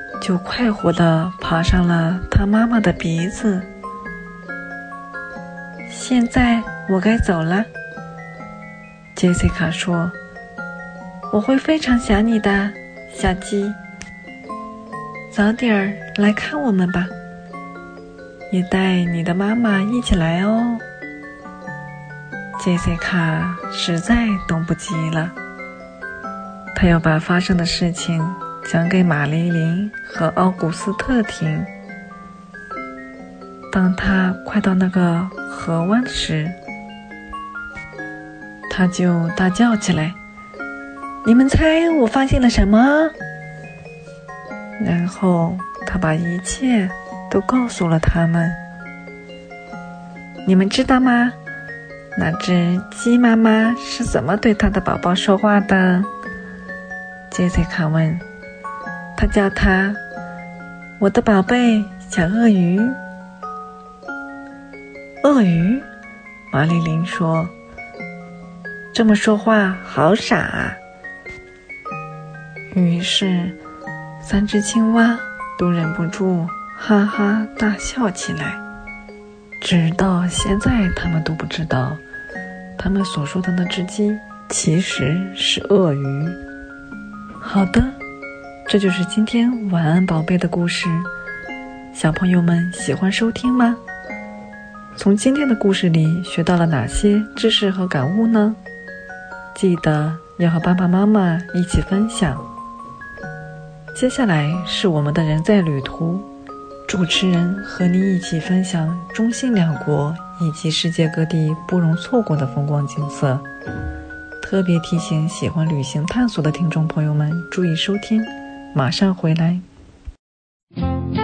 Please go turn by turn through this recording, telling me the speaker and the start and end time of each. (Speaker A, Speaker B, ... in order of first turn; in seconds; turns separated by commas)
Speaker A: 0.2-3.7, Speaker A: 5.9-7.7, Speaker A: 9.2-10.2, Speaker A: 11.3-13.8, Speaker A: 15.3-17.1, Speaker A: 18.5-20.8, Speaker A: 22.6-25.4, Speaker A: 26.7-31.7, Speaker A: 33.7-36.6, Speaker A: 38.7-40.2, Speaker A: 41.2-43.1, Speaker A: 44.8-48.6, Speaker A: 50.5-51.4, Speaker A: 52.1-56.1, Speaker A: 57.3-58.2, Speaker A: 59.2-60.0, Speaker A: 61.0-63.0, Speaker A: 65.2-65.9, Speaker A: 66.5-67.5, Speaker A: 68.9-70.8, Speaker A: 72.7-73.6, Speaker A: 74.2-78.6, Speaker A: 79.6-82.0, Speaker A: 82.8-86.4, Speaker A: 87.4-88.0, Speaker A: 88.7-91.1, Speaker A: 91.9-93.8, Speaker A: 95.0-98.6, Speaker A: 99.5-102.5, Speaker A: 104.0-106.3, Speaker A: 106.9-113.5, Speaker A: 114.4-119.6